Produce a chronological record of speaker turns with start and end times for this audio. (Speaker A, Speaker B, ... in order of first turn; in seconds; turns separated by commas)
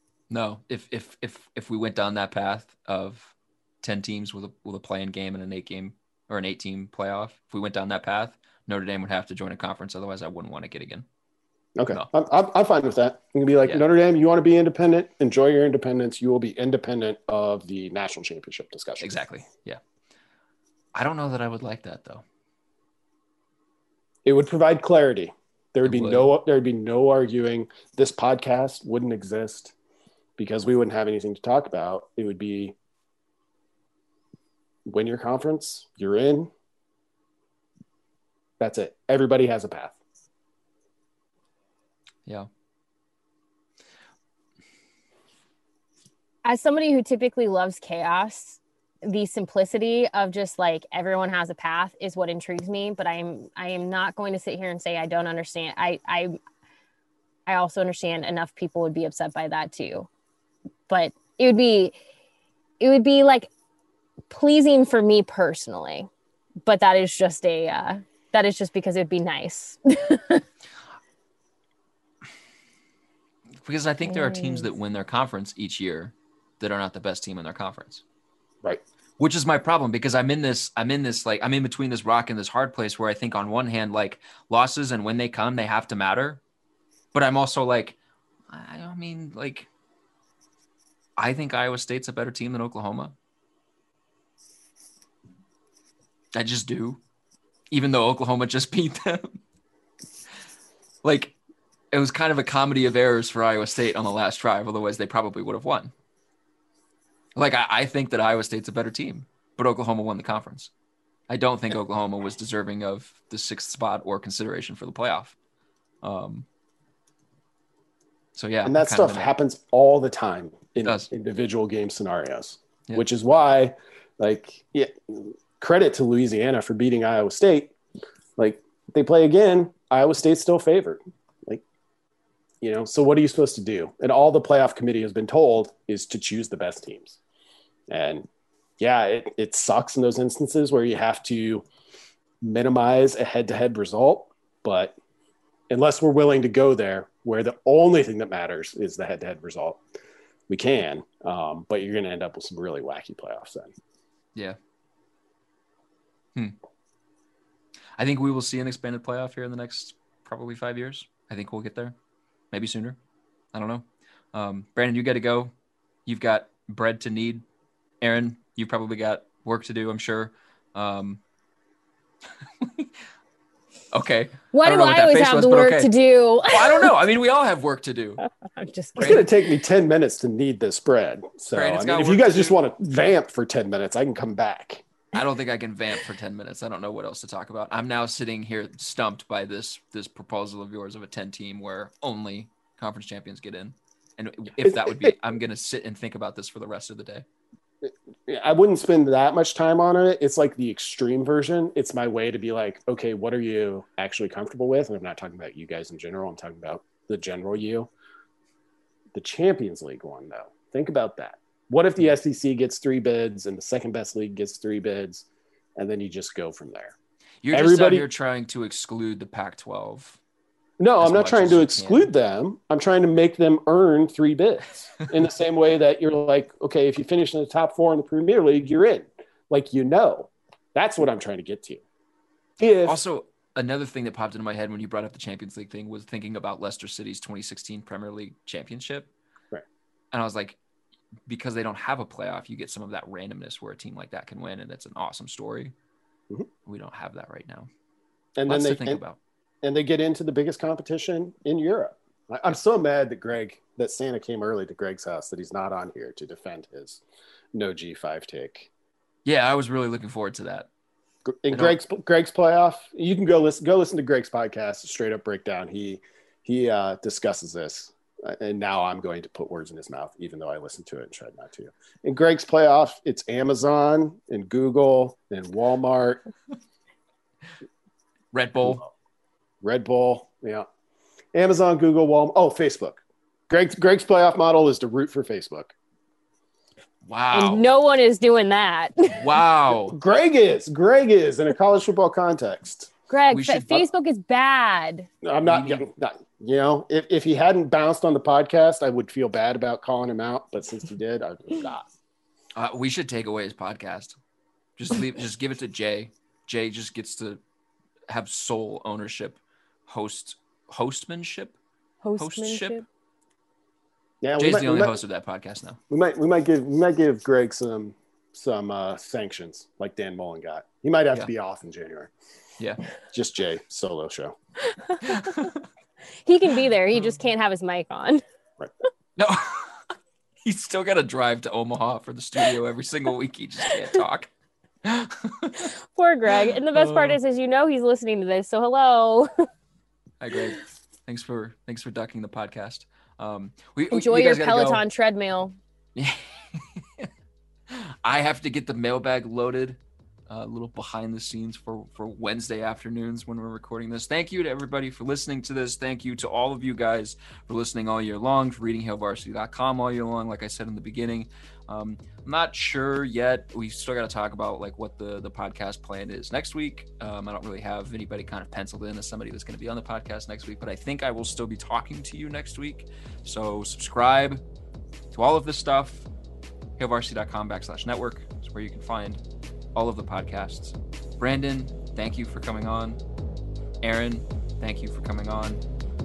Speaker A: 0.3-11.1, Speaker B: 11.8-19.1, Speaker A: 19.0-19.8, Speaker A: 20.9-22.2, Speaker B: 24.2-29.7, Speaker A: 25.8-26.3, Speaker B: 30.4-32.8, Speaker B: 34.9-36.5, Speaker B: 38.6-40.0, Speaker C: 46.4-56.4, Speaker C: 57.5-60.1, Speaker C: 60.9-62.0, Speaker C: 62.8-63.5, Speaker C: 64.3-66.1, Speaker C: 66.7-70.4, Speaker A: 73.6-78.0, Speaker C: 74.0-74.7, Speaker A: 79.2-86.4, Speaker A: 87.1-88.0, Speaker A: 88.5-89.7, Speaker A: 91.2-93.1, Speaker A: 96.3-97.0, Speaker A: 97.7-99.4, Speaker A: 101.0-101.4, Speaker A: 101.9-105.9, Speaker A: 107.3-110.7, Speaker A: 111.3-115.4, Speaker A: 116.0-116.5, Speaker A: 118.4-119.3, Speaker B: 118.7-127.7, Speaker A: 120.8-121.1, Speaker B: 128.4-131.6, Speaker B: 132.6-137.2, Speaker B: 137.9-138.3, Speaker B: 138.8-141.7, Speaker B: 142.4-145.0, Speaker B: 145.7-149.8, Speaker B: 150.5-153.7, Speaker A: 158.0-161.9, Speaker A: 162.5-163.0, Speaker A: 163.5-165.5, Speaker A: 166.1-167.4, Speaker A: 168.0-171.2, Speaker A: 172.6-172.9, Speaker A: 173.9-175.9, Speaker C: 174.5-176.9, Speaker A: 176.5-178.2, Speaker C: 178.4-179.3, Speaker A: 179.0-179.2, Speaker B: 179.0-184.9, Speaker A: 181.5-182.6, Speaker A: 185.1-197.2, Speaker B: 194.6-195.1, Speaker B: 197.8-207.9, Speaker B: 209.1-216.9, Speaker A: 217.4-220.2, Speaker B: 217.5-218.1, Speaker B: 220.8-231.8, Speaker A: 221.0-222.1, Speaker B: 232.6-233.0, Speaker A: 232.8-239.1, Speaker A: 240.1-240.6, Speaker A: 241.3-245.7, Speaker A: 246.7-247.7, Speaker B: 248.4-249.0, Speaker A: 248.5-249.2, Speaker B: 249.6-257.0, Speaker B: 257.5-258.7, Speaker A: 259.2-260.7, Speaker B: 261.3-276.2, Speaker A: 278.3-278.8, Speaker B: 278.6-278.9, Speaker B: 279.6-280.7, Speaker B: 281.3-285.7, Speaker A: 287.1-287.6, Speaker C: 287.3-289.3, Speaker A: 289.2-290.0, Speaker B: 289.9-292.9, Speaker C: 293.1-295.1, Speaker A: 293.3-293.9, Speaker B: 295.2-301.9, Speaker A: 295.4-295.8, Speaker A: 302.6-304.2, Speaker A: 304.8-307.4, Speaker A: 308.1-311.6, Speaker C: 312.0-312.9, Speaker A: 312.2-312.8, Speaker B: 314.2-315.0, Speaker A: 314.4-315.8, Speaker B: 315.9-322.1, Speaker B: 323.1-324.4, Speaker C: 324.6-325.5, Speaker A: 325.0-325.6, Speaker C: 326.2-328.2, Speaker A: 329.2-329.8, Speaker A: 330.4-334.3, Speaker A: 334.8-335.7, Speaker C: 335.6-339.5, Speaker A: 336.7-337.2, Speaker A: 340.2-344.8, Speaker C: 343.9-345.6, Speaker A: 346.0-347.1, Speaker A: 347.7-374.4, Speaker A: 375.1-376.1, Speaker A: 376.8-379.2, Speaker A: 379.8-383.0, Speaker A: 383.8-385.6